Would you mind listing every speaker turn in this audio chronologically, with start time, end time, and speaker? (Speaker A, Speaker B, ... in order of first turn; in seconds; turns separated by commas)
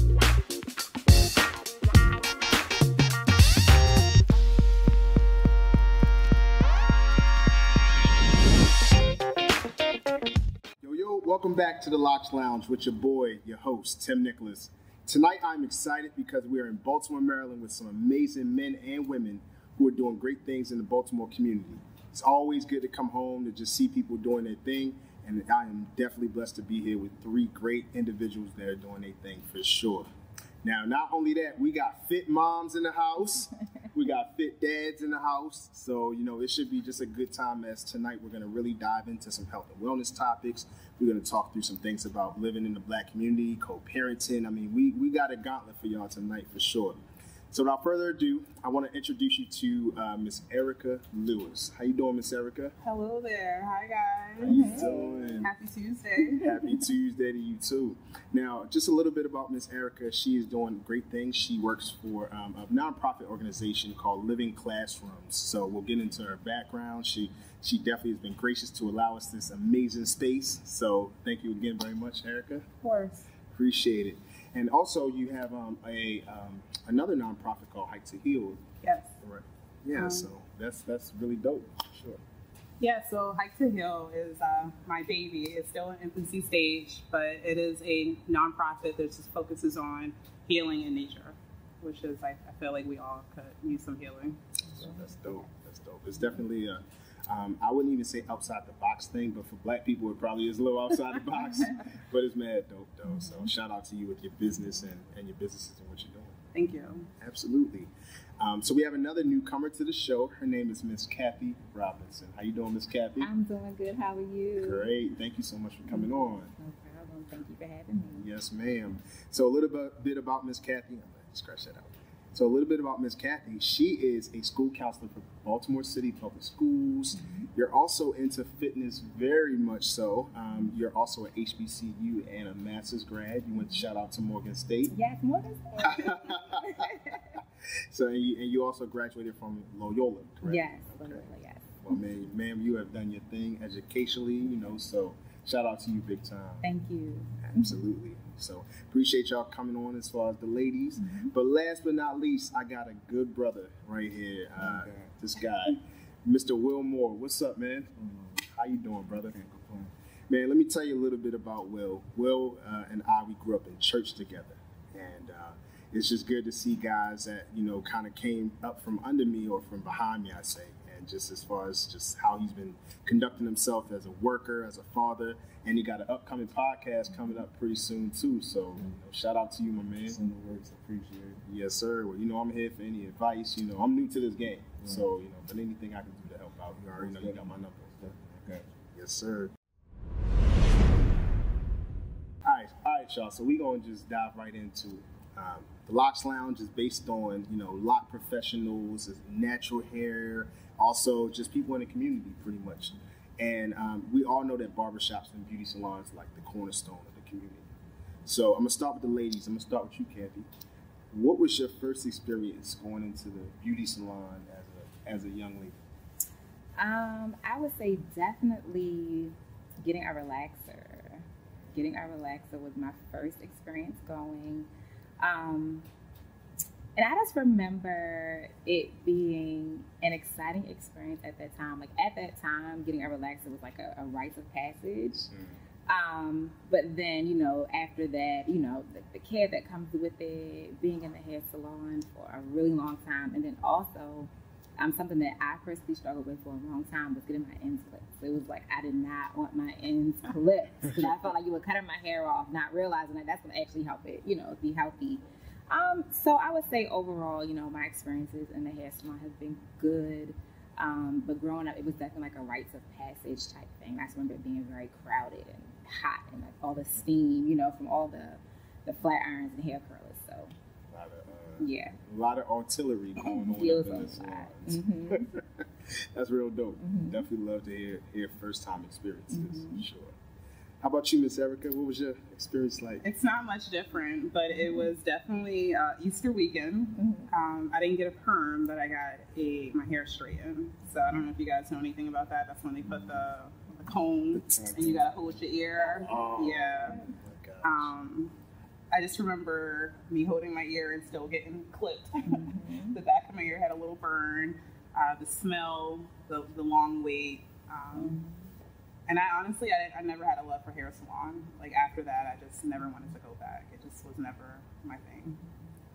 Speaker A: 10.8-30.1, Speaker A: 30.6-47.0, Speaker A: 47.5-52.8, Speaker B: 52.8-56.5, Speaker A: 54.4-55.5, Speaker C: 54.5-55.0, Speaker A: 56.4-72.7, Speaker B: 72.8-73.3, Speaker A: 73.5-78.7, Speaker B: 78.8-79.2, Speaker A: 79.2-82.2, Speaker B: 79.9-80.3, Speaker B: 82.8-94.4, Speaker A: 94.7-106.4, Speaker B: 106.5-107.1, Speaker A: 107.2-113.3, Speaker C: 113.2-114.9, Speaker A: 114.6-116.5, Speaker C: 115.9-118.3, Speaker A: 118.2-134.9, Speaker C: 134.9-137.2, Speaker A: 135.8-141.2, Speaker C: 140.4-141.8, Speaker A: 141.8-146.7, Speaker C: 146.6-147.7, Speaker A: 147.4-159.3, Speaker C: 151.0-151.3, Speaker D: 154.6-155.1, Speaker D: 158.0-158.4, Speaker D: 159.2-159.9, Speaker A: 160.3-180.2, Speaker D: 180.1-181.4, Speaker A: 181.4-187.9, Speaker D: 184.8-185.1, Speaker D: 186.9-188.8, Speaker A: 188.9-189.6, Speaker A: 192.4-207.7, Speaker A: 208.2-210.5, Speaker A: 211.1-215.8, Speaker C: 216.8-224.7, Speaker C: 225.2-225.9, Speaker C: 227.0-235.3, Speaker A: 235.3-235.6, Speaker C: 235.9-270.5, Speaker A: 270.9-280.2, Speaker C: 271.6-272.0, Speaker C: 273.2-275.3, Speaker C: 276.8-277.3, Speaker C: 279.3-279.9, Speaker A: 280.8-283.1, Speaker B: 283.0-297.0, Speaker C: 284.6-284.9, Speaker C: 287.0-287.3, Speaker D: 294.4-295.2, Speaker C: 295.8-297.1, Speaker A: 296.1-297.9, Speaker B: 297.6-298.4, Speaker B: 298.9-308.2, Speaker C: 302.2-303.0, Speaker C: 307.9-308.6, Speaker B: 309.1-315.4